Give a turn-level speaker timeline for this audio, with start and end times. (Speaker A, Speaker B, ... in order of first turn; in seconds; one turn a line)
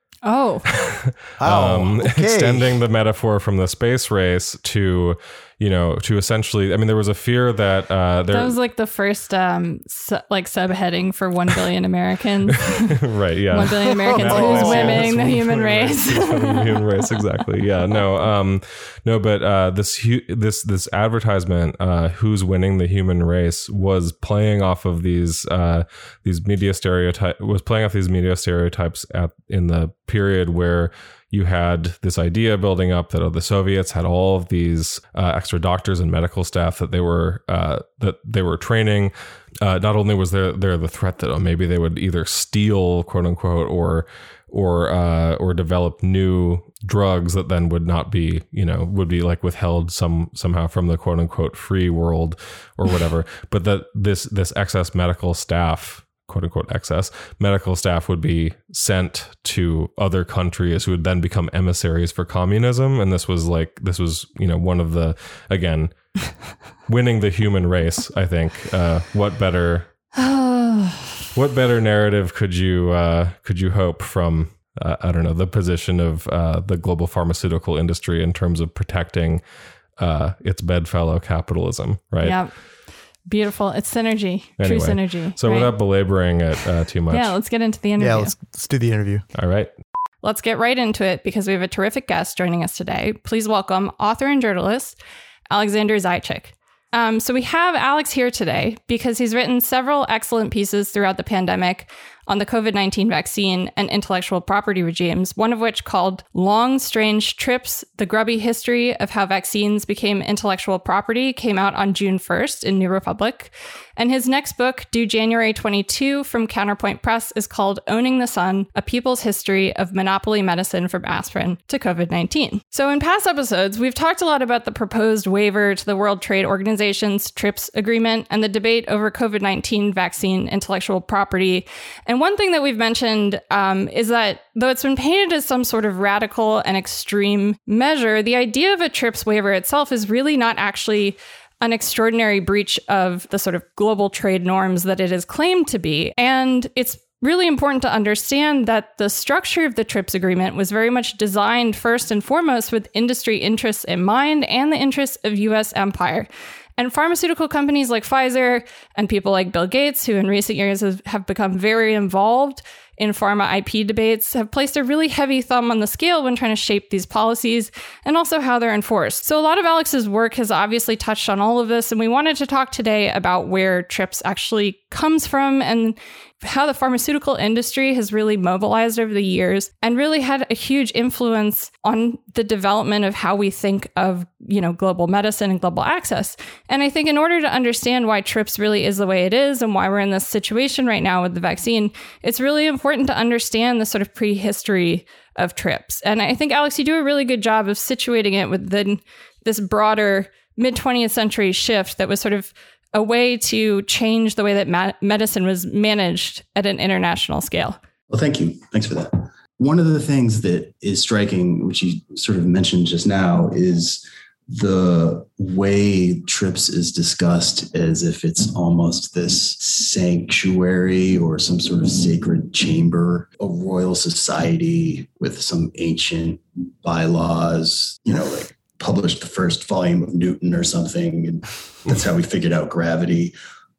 Speaker A: 0.2-0.7
Speaker B: 0.7-8.6
Speaker C: 1.4-2.8
Speaker A: 8.3-17.0
Speaker B: 12.6-66.3
Speaker C: 14.0-16.0
Speaker B: 66.9-69.9
Speaker A: 70.2-71.1
Speaker B: 71.3-79.4
Speaker B: 80.0-82.4
Speaker A: 82.2-82.7
Speaker A: 83.2-85.7
Speaker B: 84.6-87.3
Speaker A: 87.1-88.3
Speaker C: 88.0-89.2
Speaker B: 89.3-89.7
Speaker A: 90.2-95.0
Speaker A: 95.5-207.8
Speaker D: 208.1-233.3